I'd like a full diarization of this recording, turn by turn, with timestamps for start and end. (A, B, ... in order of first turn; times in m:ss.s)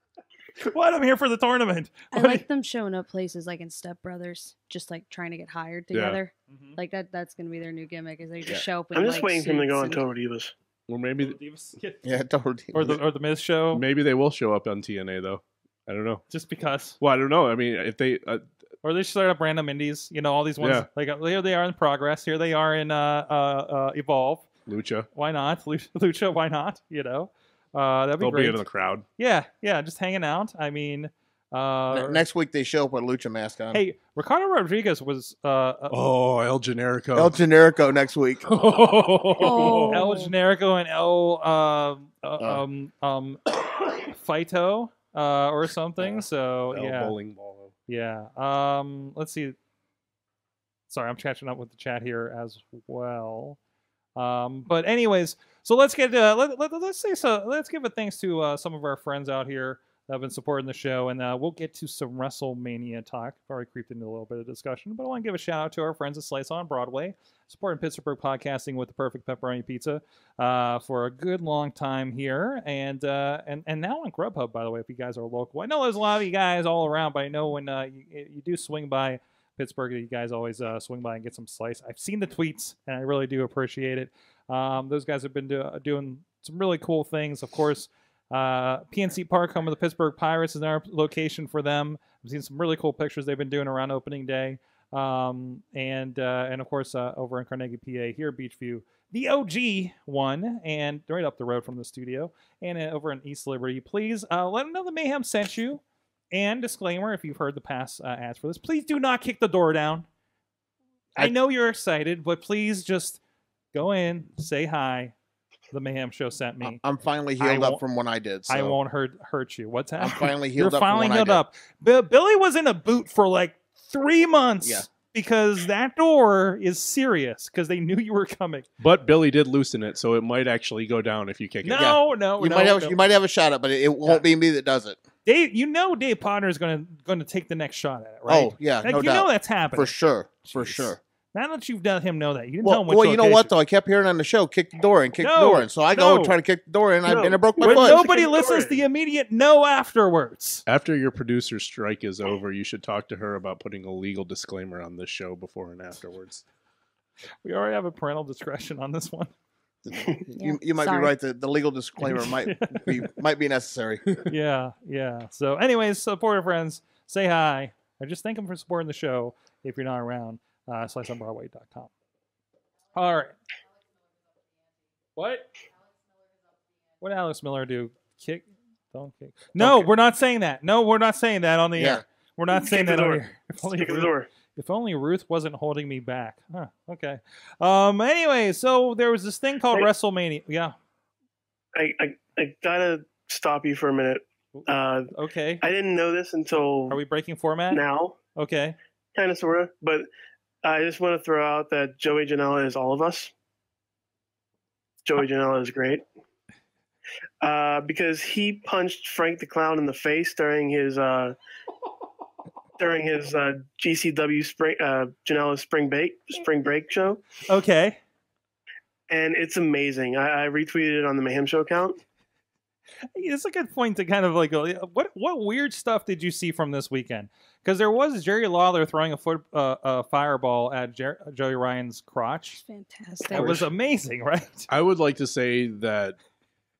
0:00.6-0:02.4 A
0:02.1-0:10.0 B
0:05.9-0:06.2 C
0:06.5-0:06.8 A
0:08.9-0:10.5 D
0:10.9-0:11.4 C
0:11.2-0:12.0 A
0:12.0-0:13.0 E
0:12.7-0:13.8 A
0:13.7-0:16.2 C
0:16.3-0:17.0 A
0:17.0-0:18.5 C
0:18.8-0:24.5 A
0:20.6-0:20.9 C
0:24.7-0:25.1 C
0:25.1-0:28.6 A
0:28.2-0:29.1 C
0:29.2-0:32.2 A
0:31.9-0:33.8 E
0:33.7-0:36.0 A
0:35.9-0:37.4 C
0:37.1-0:38.5 E
0:38.4-0:40.1 C
0:39.4-0:40.3 B
0:39.9-0:47.2 A
0:46.7-0:47.7 C
0:47.9-0:49.6 A
0:50.9-0:53.6 A
0:54.2-1:45.8 A
1:46.3-1:50.1 A
1:51.2-1:53.2 A
1:53.7-1:55.1 A
1:55.7-1:56.8 A
1:56.6-1:58.8 E
1:57.4-1:57.8 A
1:58.5-2:08.7 A
2:00.0-2:01.4 E
2:04.6-2:04.9 E
2:08.8-2:12.0 C
2:11.6-2:13.1 A
2:11.7-2:15.0 E
2:15.3-2:23.5 A
2:18.3-2:21.0 E
2:22.6-2:28.0 E
2:25.2-2:26.4 A
2:27.1-2:28.8 D
2:27.6-2:30.6 A
2:30.7-2:36.4 C
2:37.4-2:39.3 A
2:39.8-2:44.1 E
2:40.4-2:41.1 B
2:42.0-2:43.1 A
2:44.3-2:51.9 A
2:52.9-2:53.4 A
2:55.2-2:55.5 A
2:57.0-3:10.8 A
2:59.6-2:59.9 E
3:01.8-3:02.0 E
3:02.5-3:04.3 D
3:11.8-3:17.0 D
3:14.6-3:15.6 A
3:16.9-3:17.8 A
3:17.7-3:18.2 D
3:18.4-3:18.8 A
3:19.2-3:20.1 D
3:20.6-3:23.3 D
3:25.0-3:26.0 D
3:27.4-3:31.4 D
3:32.8-3:37.2 D
3:37.5-3:38.0 A
3:39.1-3:42.0 D
3:43.2-3:52.6 A
3:52.6-3:53.6 B
3:53.3-3:54.7 A
3:53.3-3:53.7 C
3:54.7-3:56.2 C